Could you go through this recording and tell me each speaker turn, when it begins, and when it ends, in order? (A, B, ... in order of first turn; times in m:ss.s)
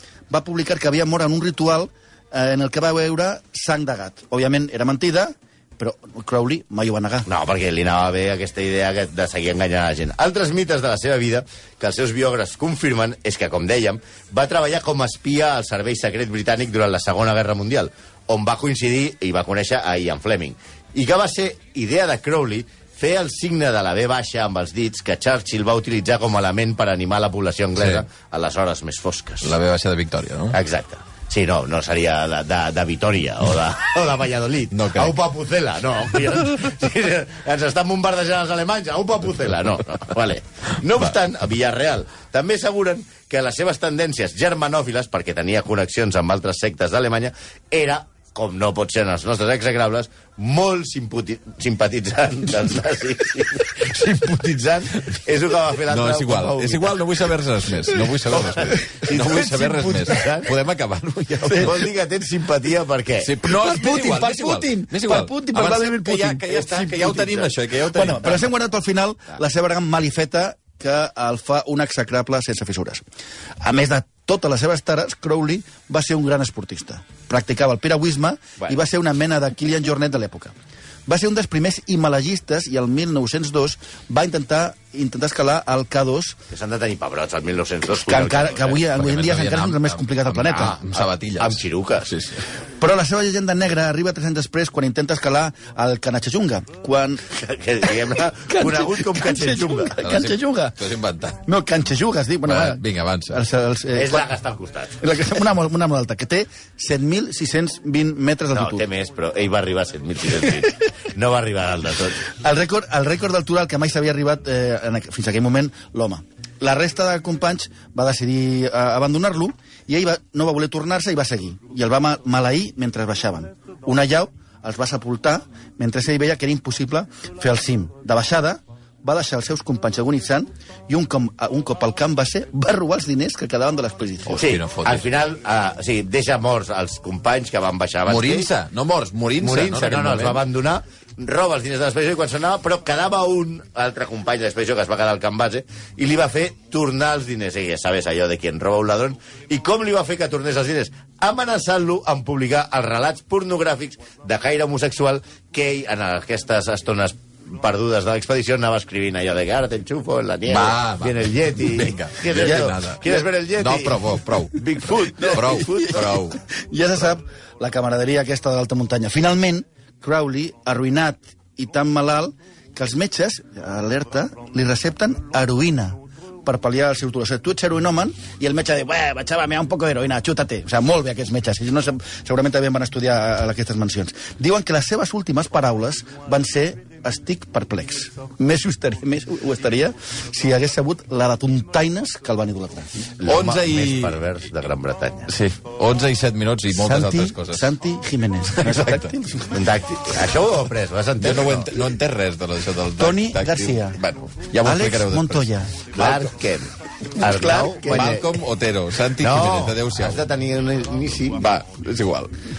0:00.3-0:07.3 A
0:07.3-0:29.6 B
0:29.4-0:30.6 C
0:30.5-0:57.2 B
0:34.7-0:35.1 C
0:55.9-1:01.8 C
0:58.3-1:00.5 B
1:01.4-1:01.7 A
1:01.6-1:03.4 B
1:03.2-1:08.5 C
1:03.4-1:06.5 A
1:06.5-1:07.5 B
1:07.9-1:13.0 A
1:13.6-1:20.6 A
1:21.1-1:26.4 A
1:26.5-1:28.8 B
1:28.1-1:30.9 A
1:28.8-1:32.4 C
1:30.6-1:32.1 B
1:32.8-1:37.2 A
1:37.3-1:40.0 B
1:38.5-1:40.8 A
1:40.0-1:41.4 C
1:41.4-1:44.3 A
1:42.4-1:43.4 C
1:44.0-1:45.0 B
1:45.0-1:48.8 A
1:48.5-1:52.2 B
1:52.4-2:14.4 A
2:14.3-2:15.1 C
2:14.4-2:18.5 B
2:18.1-2:20.4 C
2:19.4-2:46.0 B
2:40.5-2:46.4 C
2:45.2-3:12.9 A
3:13.2-3:15.3 B
3:13.3-3:14.2 C
3:15.3-3:17.7 C
3:16.7-3:19.6 A
3:18.5-3:19.2 C
3:19.5-3:21.7 B
3:21.2-3:25.5 C
3:23.0-3:24.0 A
3:24.6-3:26.1 A
3:26.0-3:28.3 B
3:27.2-3:27.9 A
3:27.9-3:30.3 C
3:29.2-3:31.4 B
3:31.4-3:32.3 C